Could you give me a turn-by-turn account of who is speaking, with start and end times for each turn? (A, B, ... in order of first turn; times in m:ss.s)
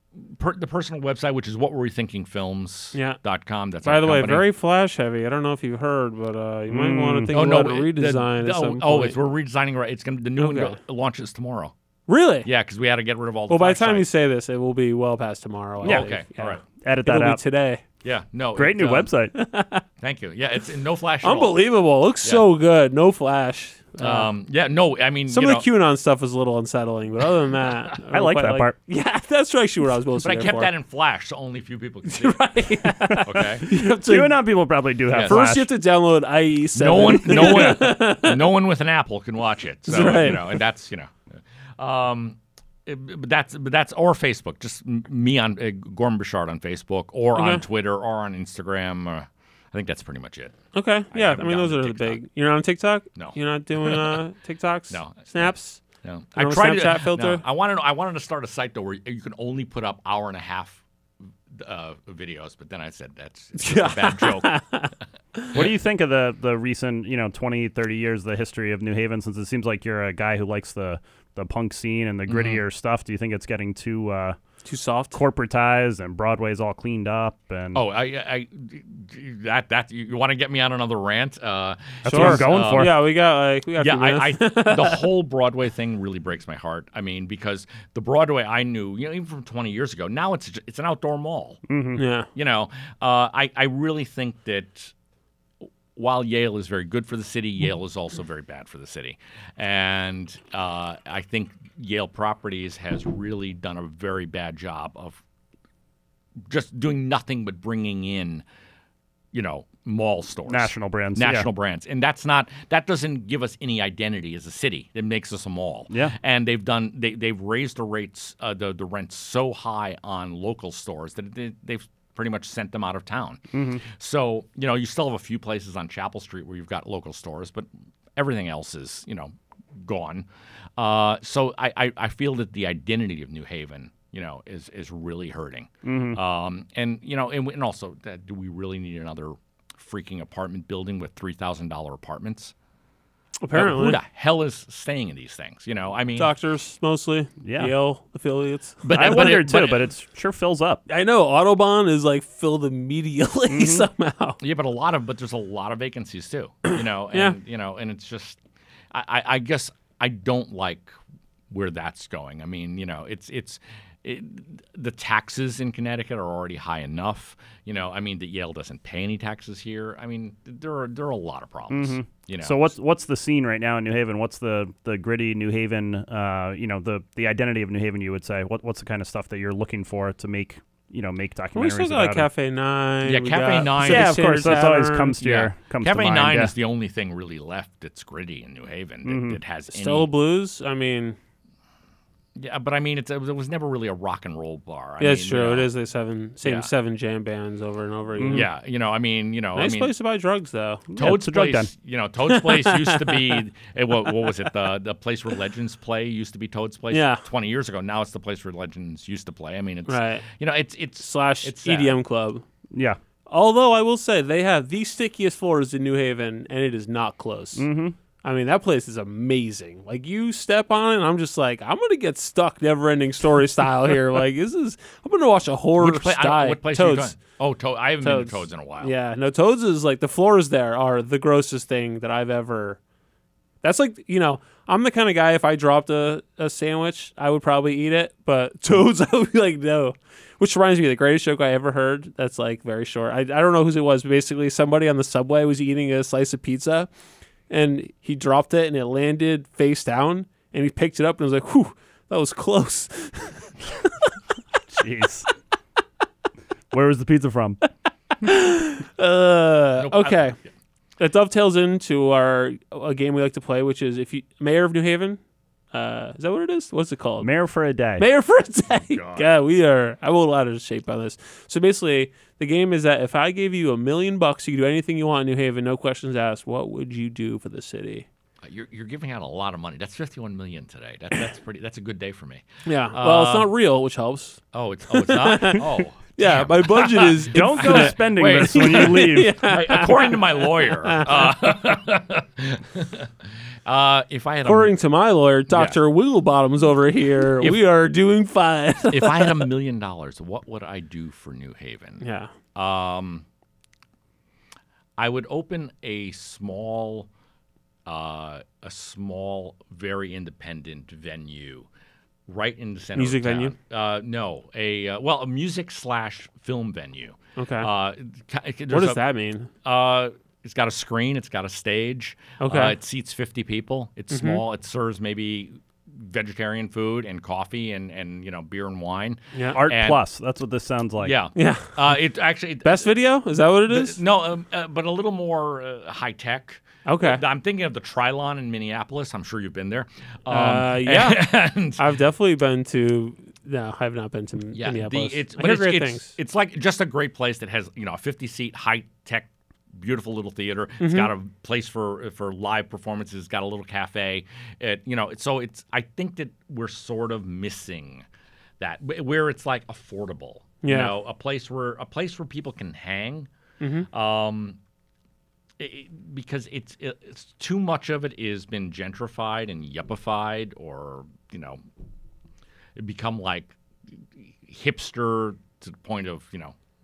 0:00.2-0:04.5 A
0:02.9-0:03.2 B
0:03.8-0:09.2 B
0:06.7-0:07.3 C
0:07.3-0:11.7 A
0:10.4-0:10.8 B
0:12.1-0:12.5 B
0:12.4-0:14.1 A
0:13.5-0:17.8 B
0:15.8-0:16.1 C
0:15.8-0:16.6 A
0:16.8-0:17.4 C
0:18.0-0:19.1 A
0:18.6-0:19.3 C
0:19.3-0:19.8 B
0:20.0-0:21.6 A
0:21.2-0:24.3 B
0:24.0-0:25.7 A
0:25.3-0:30.7 B
0:28.1-0:28.7 C
0:30.2-0:33.6 A
0:32.0-0:34.5 B
0:33.1-0:35.7 C
0:35.1-0:35.4 A
0:35.2-0:38.5 B
0:36.7-0:41.2 A
0:37.3-0:37.6 C
0:39.9-0:40.6 B
0:41.8-0:50.6 A
0:47.4-0:47.6 B
0:50.7-0:55.8 B
0:51.1-0:52.2 A
0:53.2-0:54.2 A
0:54.9-1:00.8 A
0:56.4-0:57.4 B
1:01.5-1:04.8 A
1:03.6-1:05.5 B
1:05.5-1:14.4 C
1:12.3-1:12.6 A
1:14.6-1:15.2 B
1:15.1-1:17.8 C
1:17.7-1:23.1 A
1:22.0-1:23.0 C
1:22.0-1:25.0 B
1:23.8-1:31.6 A
1:31.7-1:32.0 C
1:32.0-1:32.3 B
1:32.3-1:34.9 A
1:36.0-1:45.2 A
1:46.4-1:48.4 A
1:49.3-2:22.5 A
1:50.5-1:51.5 C
2:03.5-2:03.8 C
2:15.8-2:16.2 C
2:23.4-2:24.0 B
2:23.5-2:26.3 A
2:26.2-2:29.3 B
2:27.4-2:27.7 C
2:28.8-2:29.9 A
2:28.9-2:30.8 C
2:30.9-2:34.4 B
2:33.5-2:33.9 C
2:34.4-2:41.0 A
2:37.1-2:37.4 B
2:41.5-2:52.7 A
2:51.7-3:02.3 C
3:01.6-3:05.2 B
3:03.0-3:10.1 A
3:03.8-3:06.5 C
3:09.0-3:09.4 C
3:09.7-3:11.2 B
3:12.4-3:15.7 A
3:15.0-3:18.5 B
3:16.4-3:16.7 A
3:18.2-3:18.5 C
3:18.2-3:19.9 A
3:19.6-3:20.9 B
3:20.9-3:21.7 C
3:21.0-3:32.0 A
3:22.3-3:23.4 B
3:26.9-3:27.2 B
3:29.9-3:30.3 B
3:31.0-3:32.4 B
3:32.7-3:33.0 C
3:33.3-3:37.6 B
3:37.6-3:38.0 C
3:38.2-3:47.2 B
3:45.8-3:48.9 A
3:48.0-3:52.8 B
3:53.6-4:06.9 B
4:07.5-4:14.1 B
4:14.8-4:15.3 C
4:16.7-4:17.6 C
4:18.2-4:20.4 B
4:19.8-4:20.2 A
4:21.0-4:25.2 B
4:25.7-4:27.3 B
4:27.2-4:28.0 C
4:28.0-4:38.1 B
4:28.7-4:29.3 A
4:38.4-4:43.5 A
4:42.6-4:51.4 B
4:44.5-4:54.7 A
4:47.3-4:49.4 C
4:54.4-4:59.5 B
4:55.5-4:55.8 A
4:58.9-5:02.0 A
5:02.0-5:02.3 B
5:02.6-5:03.2 A
5:05.0-5:07.1 A
5:07.9-5:11.7 A
5:12.3-5:19.0 A
5:13.0-5:13.6 B
5:17.4-5:17.7 B
5:18.7-5:19.5 B
5:19.6-5:30.0 A
5:22.4-5:22.8 B
5:24.1-5:24.4 B
5:29.3-5:29.6 B
5:29.5-5:31.2 C
5:31.0-5:32.9 A
5:31.4-5:31.8 B
5:32.6-5:34.0 B
5:33.7-5:41.8 A
5:36.8-5:37.2 B
5:40.3-5:46.2 B
5:44.5-5:58.1 A
5:50.8-5:51.1 B
5:58.6-6:03.3 A
6:00.6-6:01.0 B
6:03.6-6:03.9 B
6:03.9-6:04.6 A
6:05.6-6:11.6 A
6:12.8-6:16.6 A